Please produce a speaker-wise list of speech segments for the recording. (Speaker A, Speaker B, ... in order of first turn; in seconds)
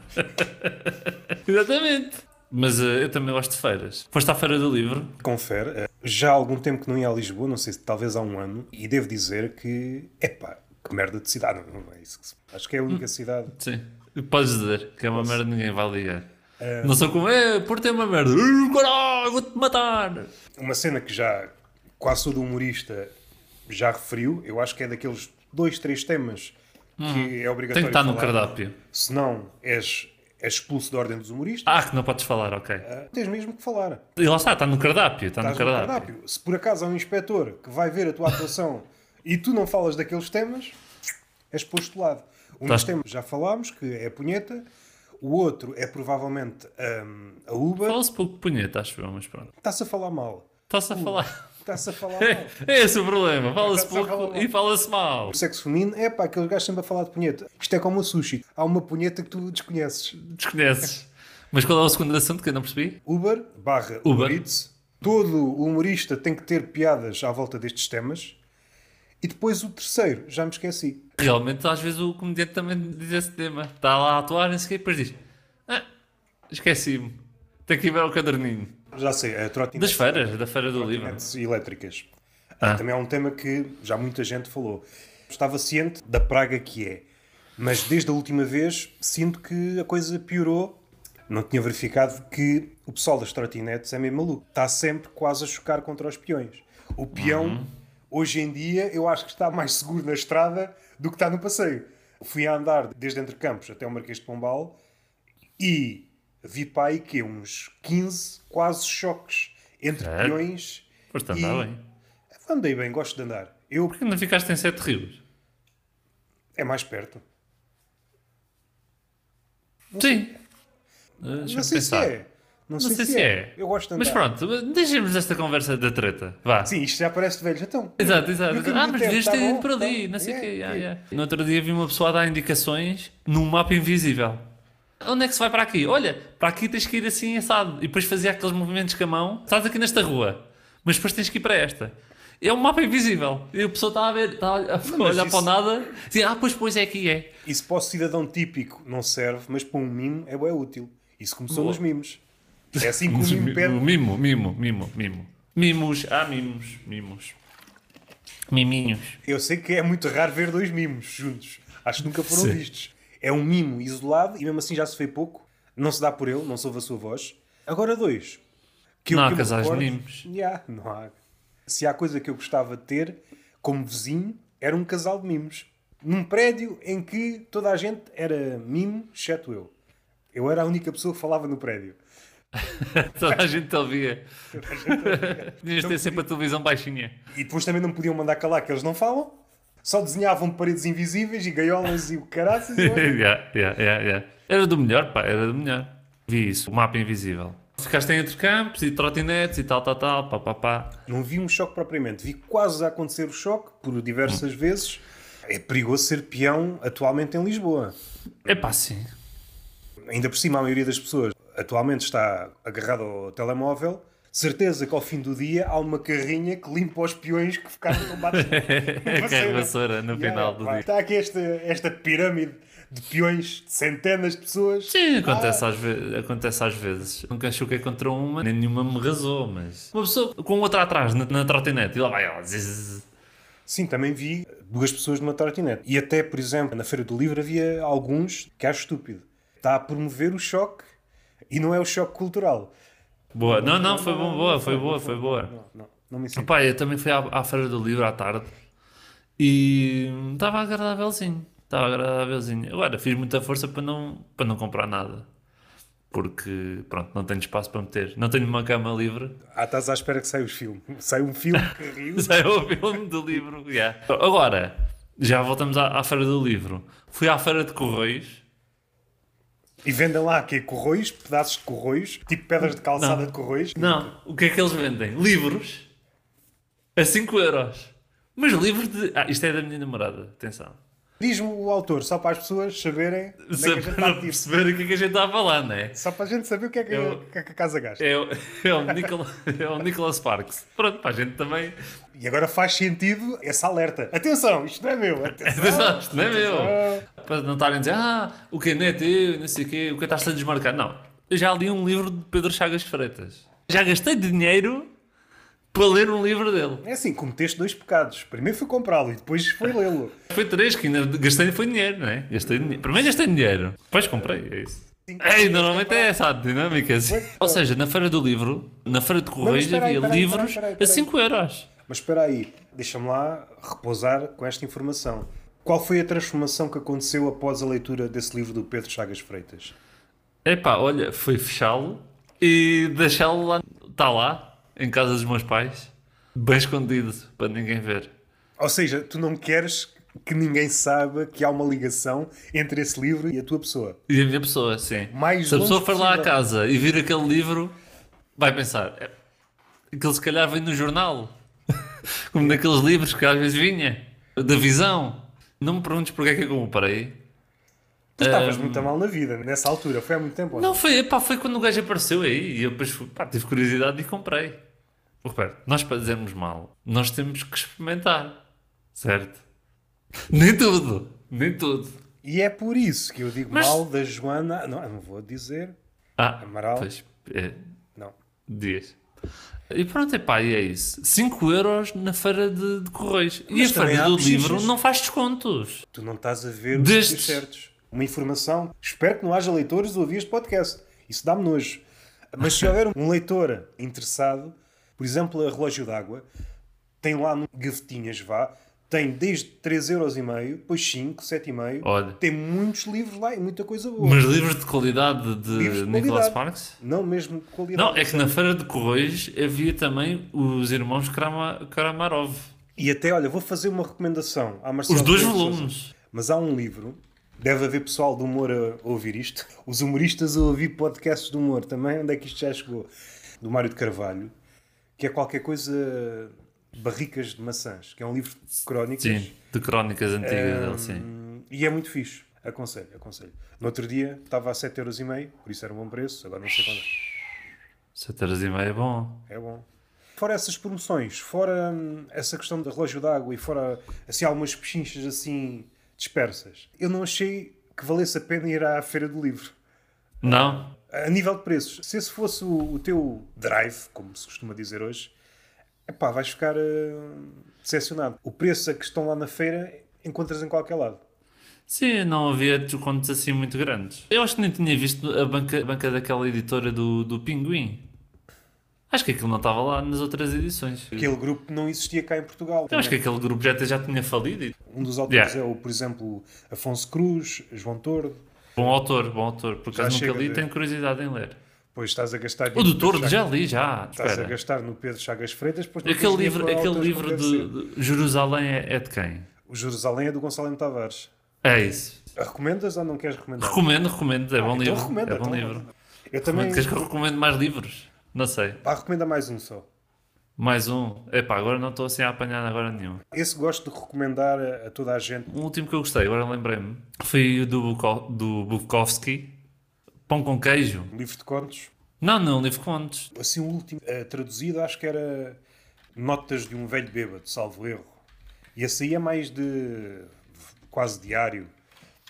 Speaker A: 0.3-5.2, 12.9-16.3, 16.8-20.3, 27.0-28.8, 31.6-32.9, 34.2-36.1, 47.9-49.5, 50.7-51.4, 52.1-55.4, 60.2-63.0, 64.0-64.4, 71.2-75.8, 76.5-78.7, 79.7-81.2, 97.2-97.7, 110.0-110.4, 111.1-111.8, 113.9-115.2, 120.0-120.3, 121.2-122.1, 122.8-126.7, 128.0-134.4, 135.0-147.3, 151.5-151.8, 152.8-157.4, 158.5-159.2, 162.3-162.6, 169.1-170.2, 182.6-187.2, 192.8-200.9, 208.4-209.1, 218.3-220.8, 224.9-233.0, 243.3-245.5, 246.3-248.5, 249.4-255.3, 256.1-259.4, 261.6-268.4, 272.9-275.9, 276.9-280.8, 283.4-286.0, 286.9-287.2, 288.0-291.8, 295.4-304.9, 305.7-306.8, 310.3-321.7, 330.4-338.1, 344.1-347.7, 348.4-349.1, 349.9-351.3, 352.3-357.2, 358.2-358.9, 360.5-364.6, 365.2-368.4, 368.9-369.4, 370.3-372.0, 373.5-373.8, 376.2-377.6, 378.5-379.0, 379.7-385.9, 386.7-387.4, 401.8-402.2, 404.0-406.8, 407.7-412.5, 414.9-415.9, 429.0-431.1, 437.9-439.2, 450.2-450.7, 461.7-467.8, 468.9-471.1, 472.7-475.3, 478.6-481.4, 482.5-484.3, 485.8-489.3, 491.4-492.0, 493.4-495.7, 496.2-498.6, 500.4-503.0, 505.3-509.4, 510.1-510.9, 512.0-513.1
Speaker B: 5.2-13.5, 15.1-15.4, 16.6-17.1, 20.6-23.1, 23.7-31.8, 32.8-34.0, 35.4-40.8, 41.5-44.7, 45.2-48.0, 49.5-52.6, 53.6-54.5, 55.3-60.2, 63.0-68.4, 69.2-71.1, 78.9-82.1, 82.6-87.0, 87.6-104.8, 105.6-111.7, 112.3-114.0, 116.5-117.2, 119.9-120.4, 121.2-124.2, 126.6-130.9, 144.8-145.5, 147.4-152.2, 152.8-153.8, 159.2-168.4, 169.0-171.1, 171.7-179.7, 180.3-182.0, 184.5-186.2, 187.3-193.2, 201.1-207.9, 210.1-225.6, 233.7-240.9, 241.5-242.7, 243.4-246.5, 259.5-262.4, 269.8-274.1, 281.2-284.4, 285.9-288.1, 292.1-297.1, 306.8-310.2, 315.1-316.1, 317.1-317.6, 319.4-321.1, 321.9-329.7, 338.6-344.0, 345.1-346.3, 352.4-352.6, 358.2-360.8, 372.2-375.8, 376.4-376.9, 383.5-384.7, 385.9-396.2, 397.0-404.5, 405.5-408.4, 412.8-422.9, 423.4-424.3, 425.0-429.3, 430.2-437.0, 439.3-439.6, 440.1-449.5, 450.2-455.1, 455.9-461.0, 470.9-473.0, 474.7-478.7, 479.7-480.5, 481.7-483.2, 483.9-487.5, 489.4-491.1, 492.1-493.7, 494.4-496.8, 498.6-499.7, 503.1-505.3, 510.9-511.7, 513.1-515.4, 515.9-518.0, 518.5-521.5